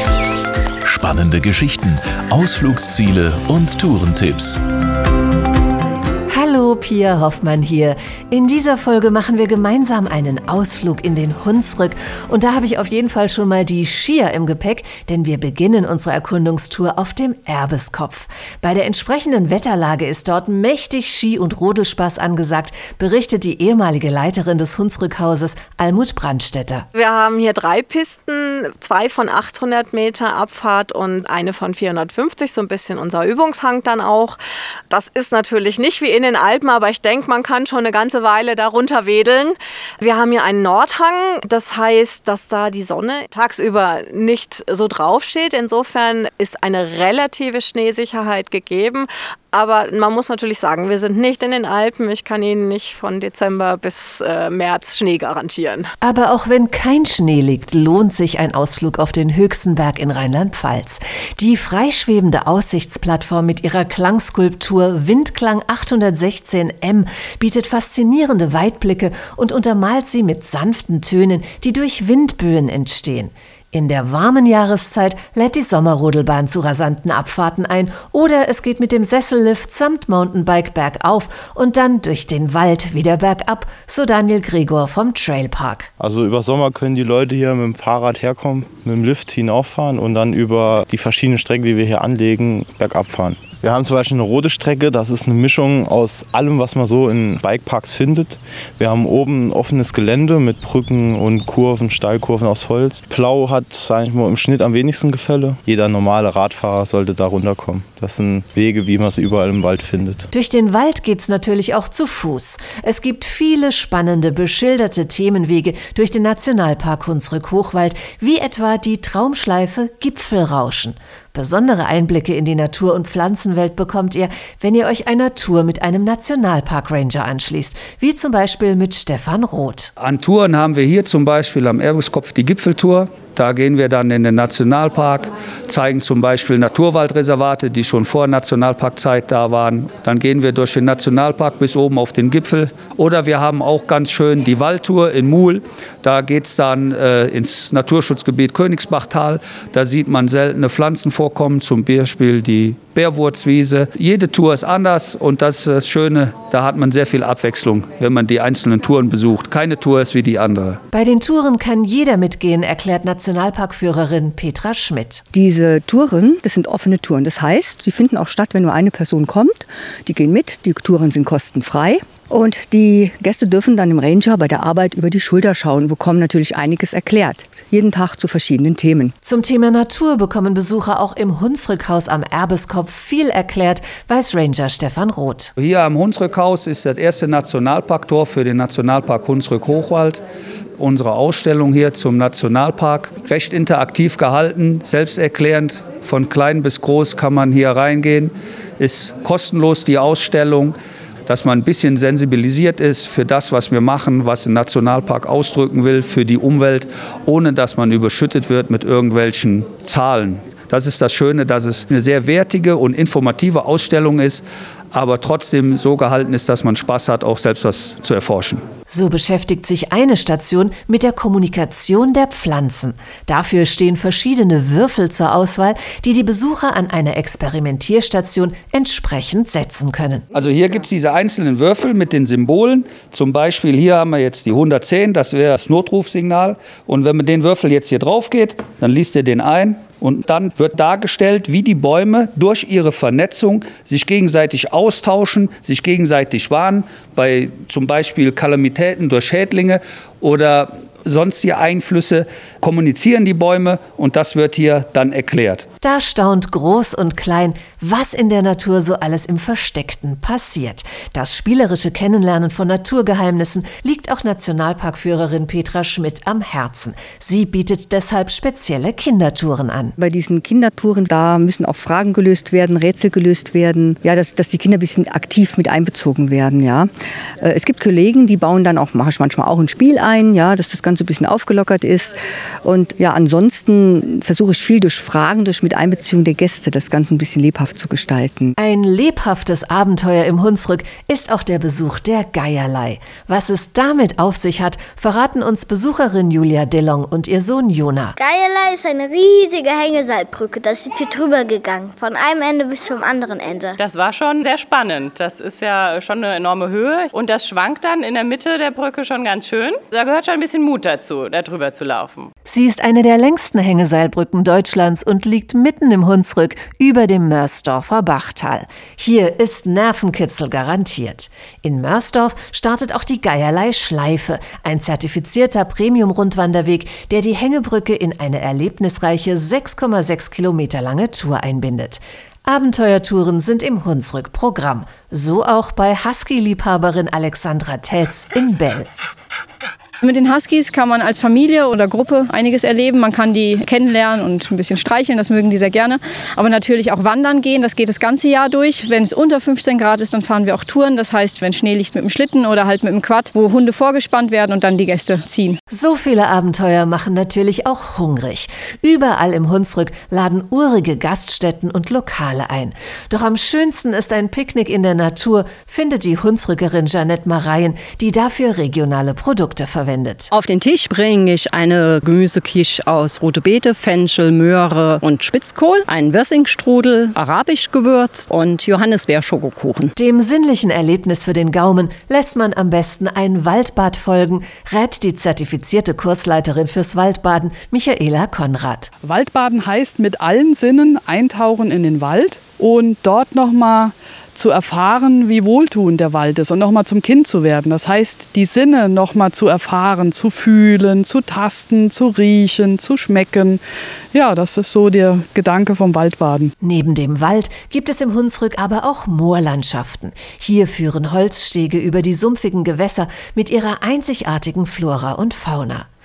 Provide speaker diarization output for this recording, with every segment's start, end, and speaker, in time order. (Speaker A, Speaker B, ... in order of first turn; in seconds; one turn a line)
Speaker A: 0.8-4.6
Speaker B: 6.3-26.9
Speaker C: 26.9-34.4
Speaker C: 34.9-55.9
Speaker B: 56.0-85.9
Speaker D: 86.0-110.3
Speaker B: 110.3-129.9
Speaker E: 130.0-160.8
Speaker B: 160.9-165.2
Speaker F: 165.3-179.1
Speaker B: 179.2-185.5
Speaker E: 185.6-190.2
Speaker E: 190.8-200.8
Speaker E: 201.3-218.6
Speaker B: 218.9-230.2
Speaker E: 230.3-255.7
Speaker B: 255.8-269.9
Speaker F: 270.0-276.9
Speaker F: 277.4-288.5
Speaker B: 288.6-298.1
Speaker G: 298.2-303.8
Speaker H: 303.8-312.3
Speaker B: 312.4-338.9
Speaker I: 340.0-355.6
Speaker B: 355.7-370.3
Speaker J: 370.3-379.9
Speaker B: 380.0-388.9
Speaker K: 389.0-403.6
Speaker K: 404.1-406.5
Speaker B: 406.6-415.9